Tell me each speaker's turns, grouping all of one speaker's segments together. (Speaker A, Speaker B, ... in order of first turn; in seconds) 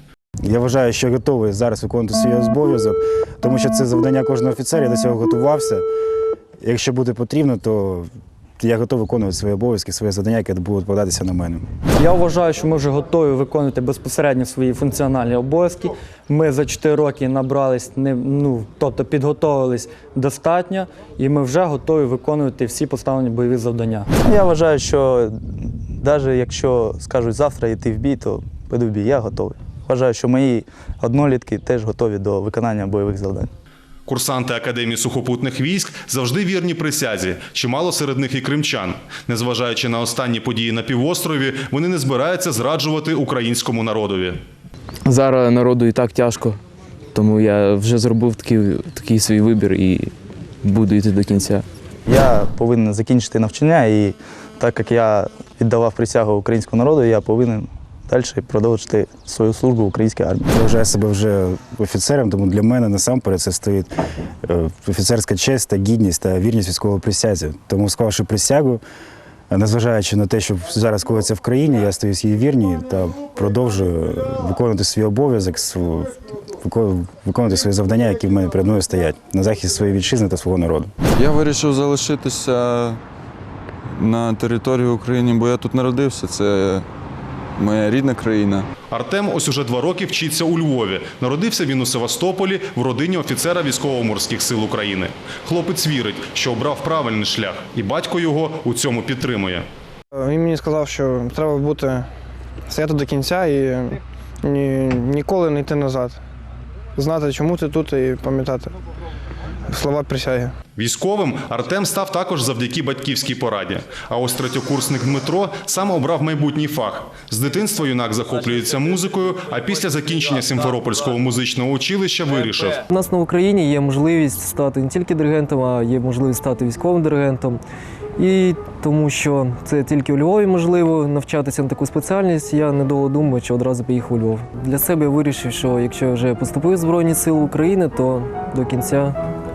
Speaker A: 0.4-5.8, 6.6-8.1, 8.6-11.6, 60.5-63.9, 64.4-68.8, 69.5-80.9
Speaker B: 11.9-24.1
Speaker C: 24.2-33.5, 52.0-60.5
Speaker D: 34.1-44.4, 88.9-99.7, 110.8-122.8
Speaker E: 45.0-46.6, 47.1-51.6
Speaker F: 81.2-83.0, 83.9-86.8, 87.6-88.7
Speaker G: 100.1-102.1, 102.7-106.2, 107.0-108.7, 109.7-110.5
Speaker H: 122.9-127.6, 128.2-139.2